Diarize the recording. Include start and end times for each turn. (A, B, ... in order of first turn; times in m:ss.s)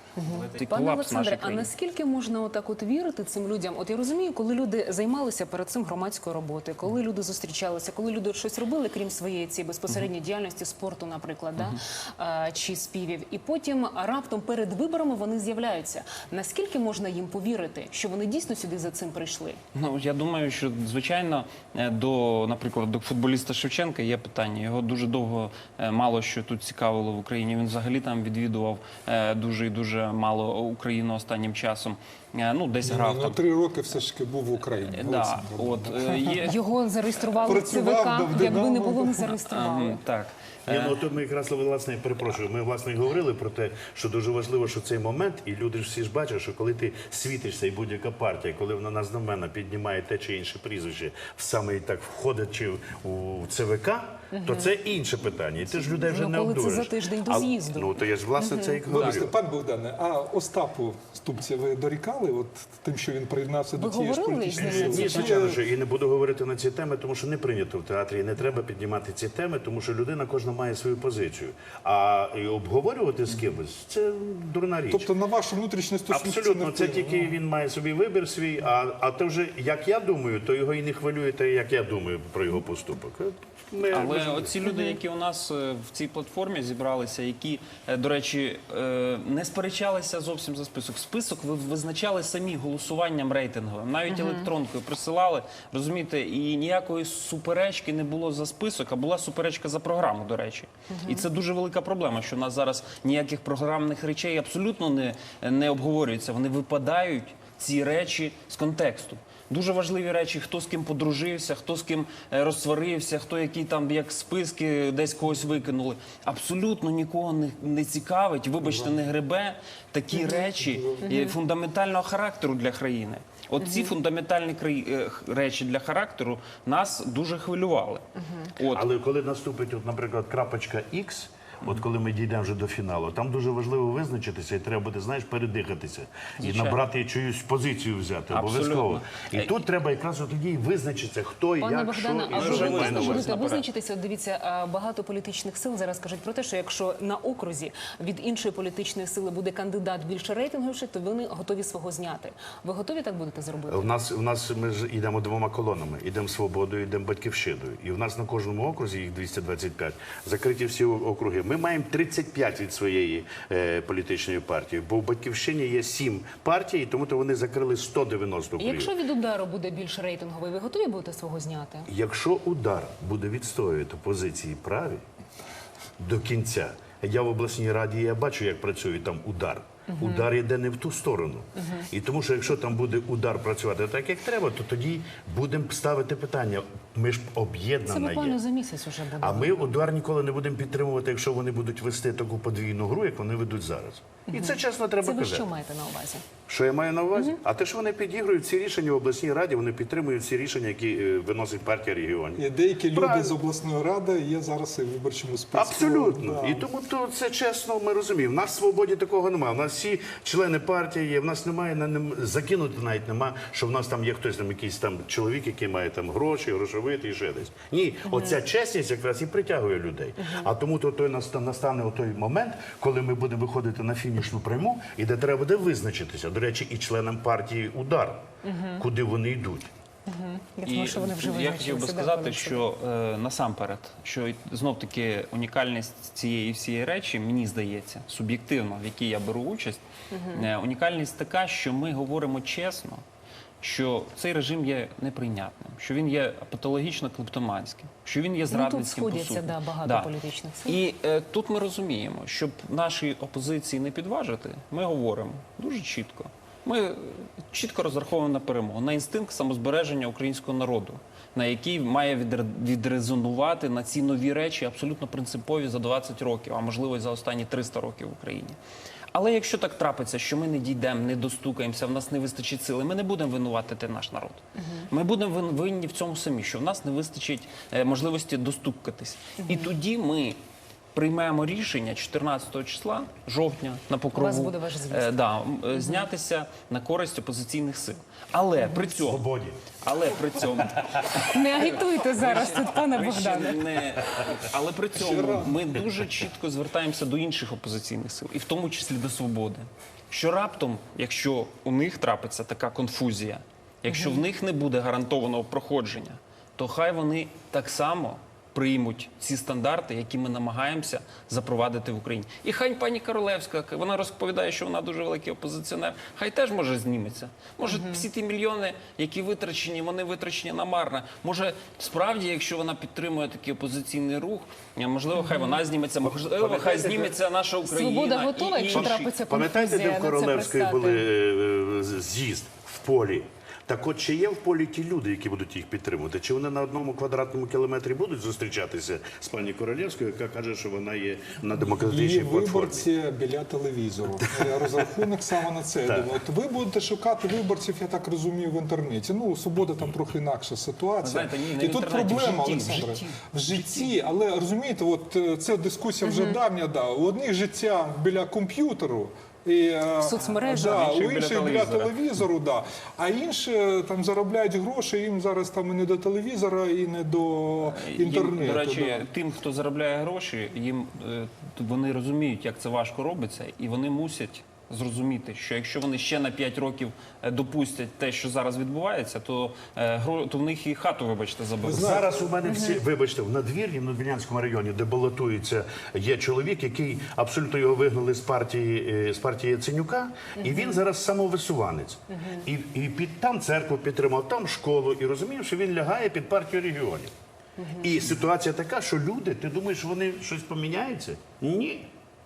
0:00.2-0:19.6 A
0:00.3-0:01.7 B
0:19.8-0:33.4 B
0:32.8-0:36.5 C
0:34.9-0:36.6 B
0:36.4-0:40.0 A
0:37.4-0:39.4 C
0:39.4-0:41.0 B
0:40.7-0:59.3 D
0:54.3-0:54.8 A
0:55.7-0:59.2 A
0:58.9-1:05.6 C
1:03.8-1:05.4 A
1:04.6-1:15.1 D
1:14.9-1:17.4 C
1:16.1-1:24.5 D
1:23.9-2:08.9 B
1:24.6-1:25.0 A
1:34.1-1:34.5 A
1:40.9-1:41.2 A
1:58.6-1:59.0 C
2:00.2-2:01.1 C
2:01.0-2:01.4 A
2:03.6-2:03.9 A
2:08.2-2:08.5 A
2:08.7-2:23.3 D
2:16.4-2:16.8 B
2:18.3-2:19.6 B
2:21.6-2:34.0 A
2:22.3-2:23.6 B
2:33.7-2:48.9 D
2:48.6-2:51.9 A
2:51.9-2:55.0 D
2:56.0-3:08.4 D
2:59.9-3:00.3 A
3:01.6-3:01.9 A
3:07.9-3:09.8 A
3:09.2-3:15.5 D
3:14.3-3:16.3 A
3:16.5-3:23.3 D
3:22.4-3:26.7 C
3:25.5-3:48.2 D
3:38.1-3:38.4 A
3:40.2-3:40.5 A
3:48.4-3:48.8 A
3:48.8-3:49.7 D
3:50.1-3:52.7 A
3:50.7-4:03.0 B
4:00.1-4:00.5 A
4:03.6-4:10.1 B
4:08.5-4:10.8 A
4:10.7-4:28.6 B
4:29.1-4:40.4 B
4:34.6-4:34.9 A
4:39.4-4:39.7 A
4:41.0-4:49.2 B
4:44.1-4:45.1 A
4:48.6-4:48.9 A
4:49.0-4:49.7 D
4:49.8-5:29.1 B
4:50.6-4:51.2 D
4:51.1-4:53.7 A
4:55.0-4:55.7 C
5:03.9-5:04.2 A
5:17.7-5:18.0 A
5:25.2-5:25.6 A
5:26.0-5:27.2 D
5:27.7-5:31.1 A
5:28.7-5:42.9 D
5:41.6-6:09.1 C
5:51.0-5:53.9 B
5:56.0-5:56.4 A
6:00.0-6:00.9 A
6:00.2-6:02.0 B
6:07.6-6:22.0 B
6:21.6-6:22.2 C
6:21.7-6:37.1 D
6:22.4-6:22.8 A
6:30.4-6:30.8 A
6:32.1-6:32.4 A
6:37.6-6:38.0 A
6:37.8-6:41.9 D